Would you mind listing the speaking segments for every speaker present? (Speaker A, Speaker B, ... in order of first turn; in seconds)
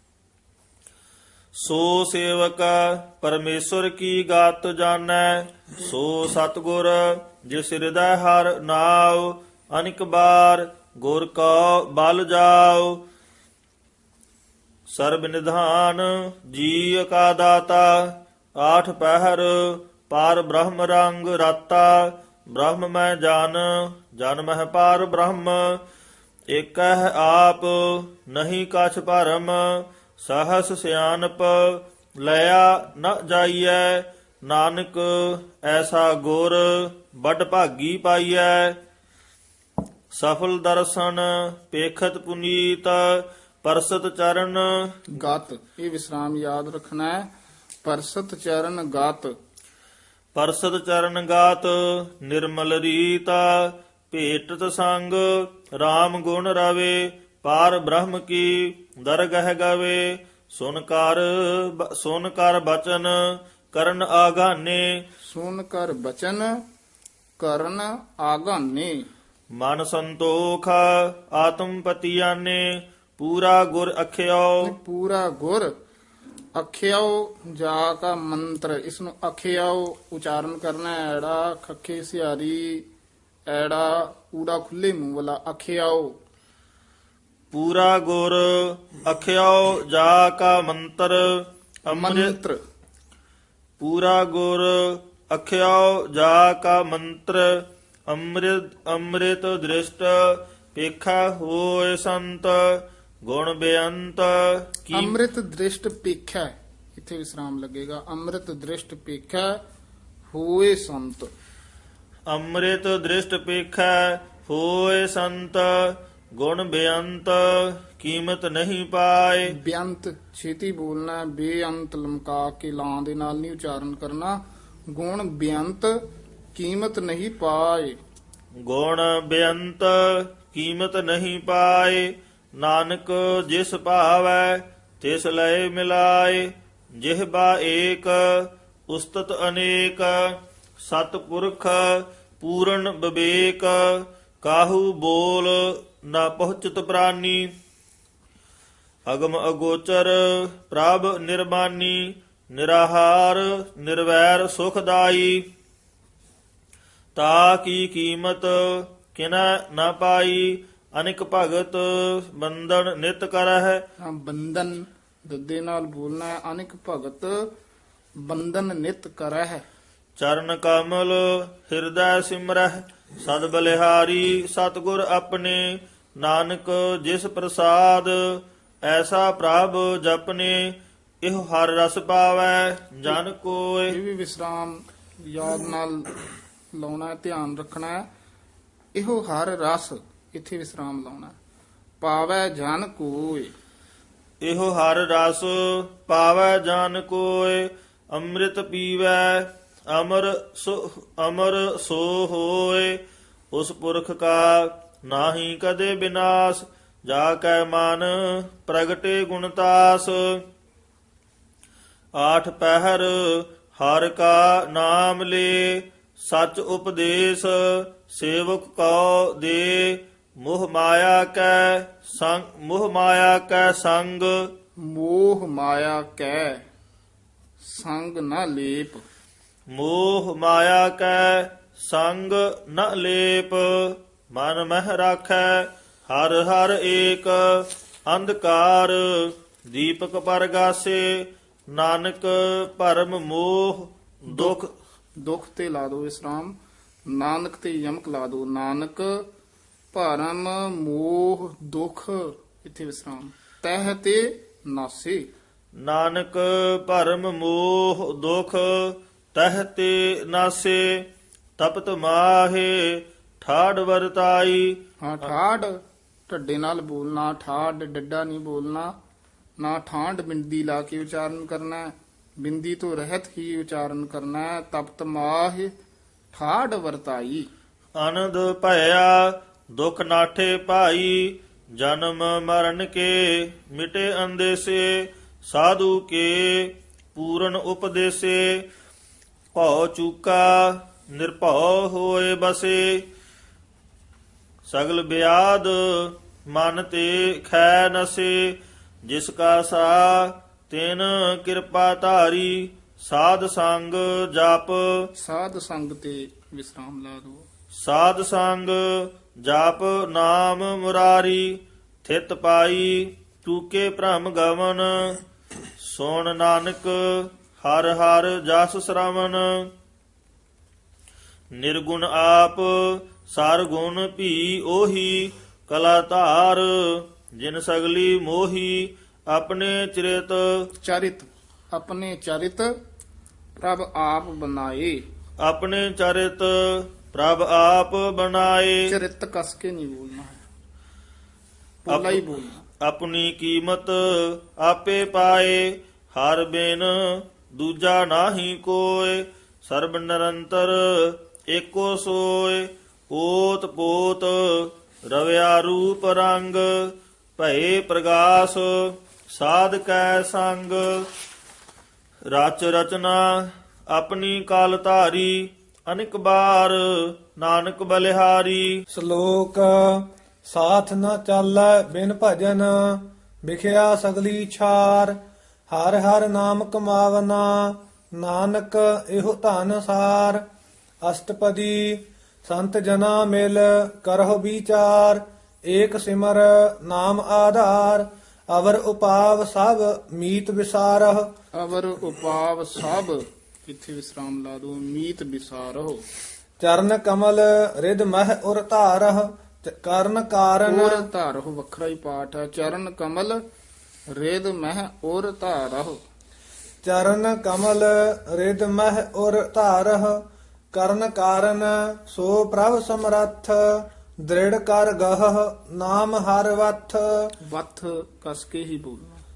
Speaker A: 1.6-13.0, 14.9-25.8, 26.5-38.8, 40.1-45.0, 50.3-63.1, 63.7-65.0, 69.6-74.7, 87.5-92.3, 93.8-105.2, 112.3-119.5, 128.6-136.5, 137.0-140.2, 140.8-147.5, 149.1-155.4, 157.2-163.8, 170.2-183.9, 194.4-203.0, 203.5-210.4, 212.2-224.5, 229.7-244.7, 255.8-261.1, 261.6-264.8, 278.0-288.7, 289.5-293.0, 294.7-305.0, 307.8-315.2, 315.8-319.7, 321.6-330.6, 335.4-338.9, 341.9-342.2, 342.8-361.1, 362.3-368.8
Speaker B: 45.1-47.3, 47.8-49.3, 65.2-66.5, 67.4-69.1, 74.6-75.7, 76.5-82.9, 83.5-86.2, 91.9-92.6, 104.9-109.6, 110.3-111.3, 119.5-124.4, 124.9-126.0, 126.5-128.0, 164.0-167.5, 168.2-169.6, 183.9-186.1, 186.7-188.0, 188.9-191.3, 192.0-193.5, 224.8-226.6, 227.6-229.0, 244.3-244.6, 245.2-246.5, 247.1-249.2, 249.9-255.3, 265.0-268.9, 269.6-275.7, 276.3-277.5, 305.1-307.4, 330.8-332.7, 333.6-335.0, 338.9-340.4, 341.9-342.6, 391.6-396.0, 400.6-403.4, 404.1-406.0, 417.4-419.2
Speaker C: 368.9-375.2, 375.7-380.4, 381.0-391.3, 396.6-401.1, 406.8-417.3